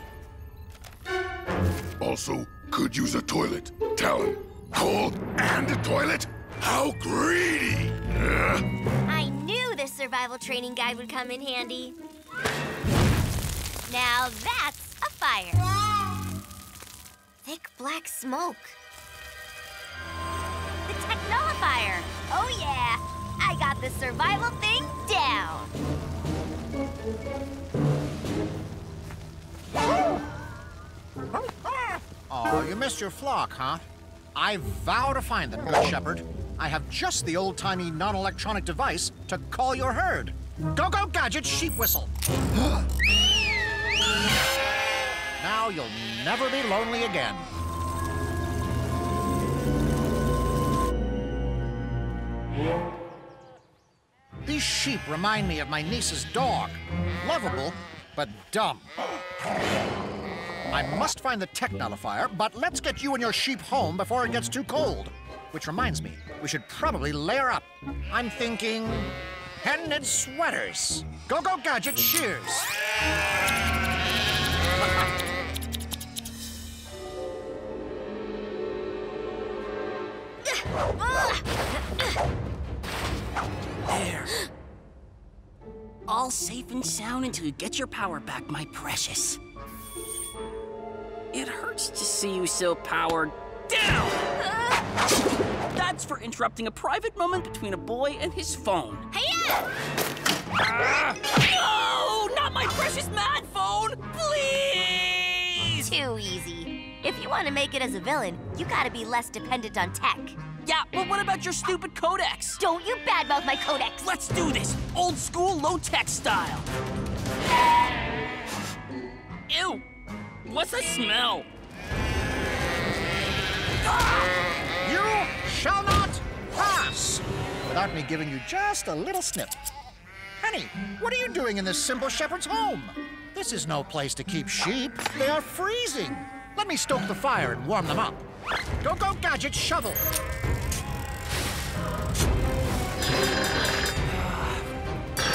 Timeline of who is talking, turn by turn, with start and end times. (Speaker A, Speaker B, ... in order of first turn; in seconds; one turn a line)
Speaker A: 2.0-8.6
Speaker B: 9.1-11.9
Speaker B: 13.9-15.6
Speaker B: 17.4-18.8
Speaker B: 20.9-25.7
Speaker C: 31.3-42.1
Speaker C: 45.4-47.5
Speaker C: 54.4-58.9
Speaker C: 60.7-72.7
Speaker B: 81.0-81.4
Speaker D: 83.9-84.3
Speaker D: 86.1-89.4
Speaker D: 91.3-94.2
Speaker D: 95.7-99.1
Speaker B: 99.1-99.6
Speaker D: 100.6-105.9
Speaker B: 105.8-110.4
Speaker D: 110.6-112.6
Speaker B: 112.6-114.1
Speaker D: 114.0-116.7
Speaker D: 119.5-119.8
Speaker D: 120.4-121.5
Speaker C: 124.8-129.6
Speaker C: 130.4-138.2
Speaker C: 138.8-140.0
Speaker D: 144.1-144.6